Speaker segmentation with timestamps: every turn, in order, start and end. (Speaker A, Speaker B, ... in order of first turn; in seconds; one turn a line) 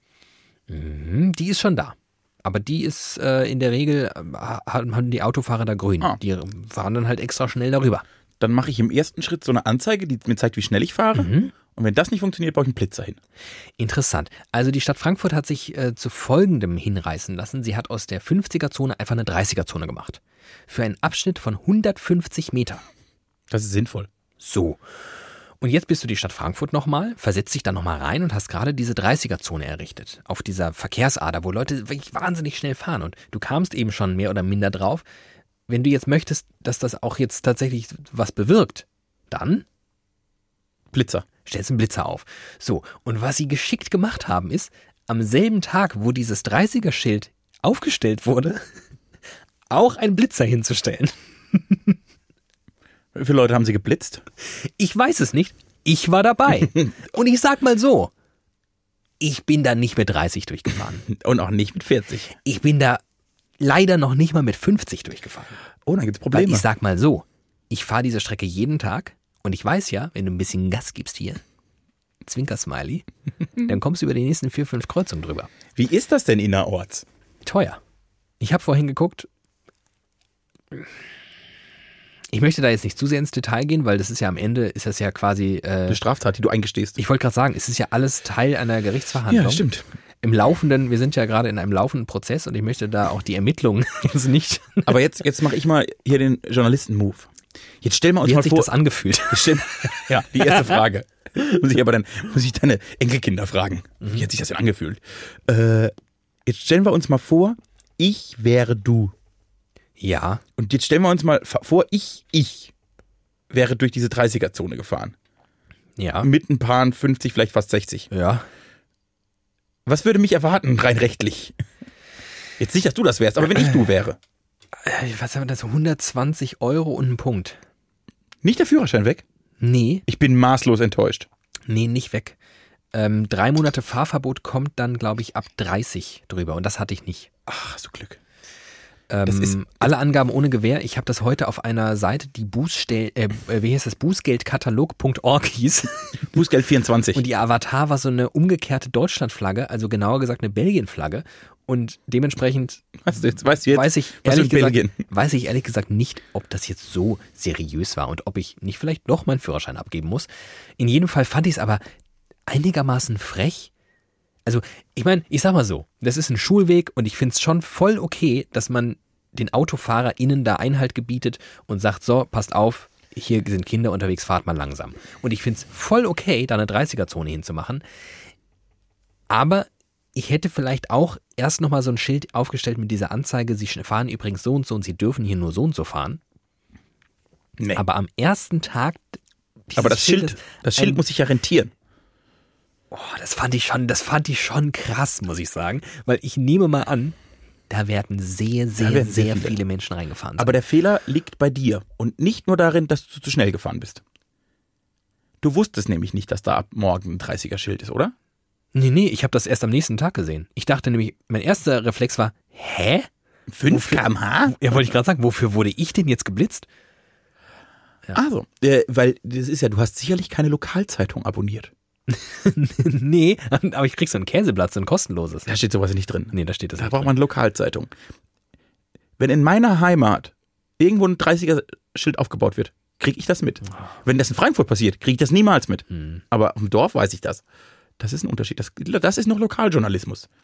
Speaker A: 0.7-8.0
Speaker B: 8.4-13.2
Speaker A: 11.1-11.5
Speaker A: 13.8-22.8
Speaker B: 23.5-24.1
Speaker A: 24.4-24.8
Speaker A: 25.6-35.0
Speaker A: 35.7-39.6
Speaker B: 40.9-41.2
Speaker A: 41.4-48.6
Speaker A: 49.7-52.0
Speaker B: 53.1-54.2
Speaker A: 54.5-58.1
Speaker A: 59.2-61.1
Speaker B: 61.1-62.3
Speaker A: 62.3-63.0
Speaker A: 63.6-65.6
Speaker B: 65.8-66.7
Speaker A: 66.3-71.4
Speaker A: 72.2-73.0
Speaker A: 73.6-75.5
Speaker B: 75.8-77.0
Speaker A: 77.4-77.8
Speaker A: 78.4-79.3
Speaker A: 82.3-86.0
Speaker B: 85.9-87.0
Speaker A: 87.0-89.6
Speaker B: 89.3-89.8
Speaker A: 90.2-95.0
Speaker B: 94.8-97.3
Speaker B: 97.8-98.7
Speaker A: 98.2-100.8
Speaker B: 99.3-105.9
Speaker B: 106.5-109.1
Speaker A: 110.0-110.4
Speaker B: 110.6-112.7
Speaker B: 113.5-115.1
Speaker A: 116.0-116.3
Speaker B: 116.2-118.1
Speaker A: 118.1-118.5
Speaker B: 119.8-121.5
Speaker B: 122.6-124.2
Speaker A: 124.8-127.6
Speaker B: 128.4-129.2
Speaker A: 129.6-130.0
Speaker B: 130.1-131.3
Speaker A: 131.7-132.3
Speaker A: 132.9-137.3
Speaker B: 137.5-138.2
Speaker A: 139.1-146.3
Speaker B: 139.2-139.9
Speaker B: 146.3-147.2
Speaker A: 147.1-152.8
Speaker B: 153.0-154.9
Speaker A: 153.7-161.8
Speaker A: 162.5-163.7
Speaker A: 164.4-177.8
Speaker A: 179.3-186.2
Speaker B: 187.6-187.8
Speaker A: 187.7-191.0
Speaker B: 189.8-191.7
Speaker A: 192.9-197.2
Speaker A: 197.7-200.6
Speaker B: 198.8-199.6
Speaker B: 200.4-204.0
Speaker B: 205.4-208.1
Speaker A: 208.7-213.1
Speaker B: 213.5-214.8
Speaker A: 213.7-216.7
Speaker B: 218.1-221.7
Speaker A: 222.1-225.5
Speaker B: 225.5-227.9
Speaker A: 226.3-227.1
Speaker B: 229.2-237.4
Speaker A: 235.9-236.2
Speaker B: 238.0-240.3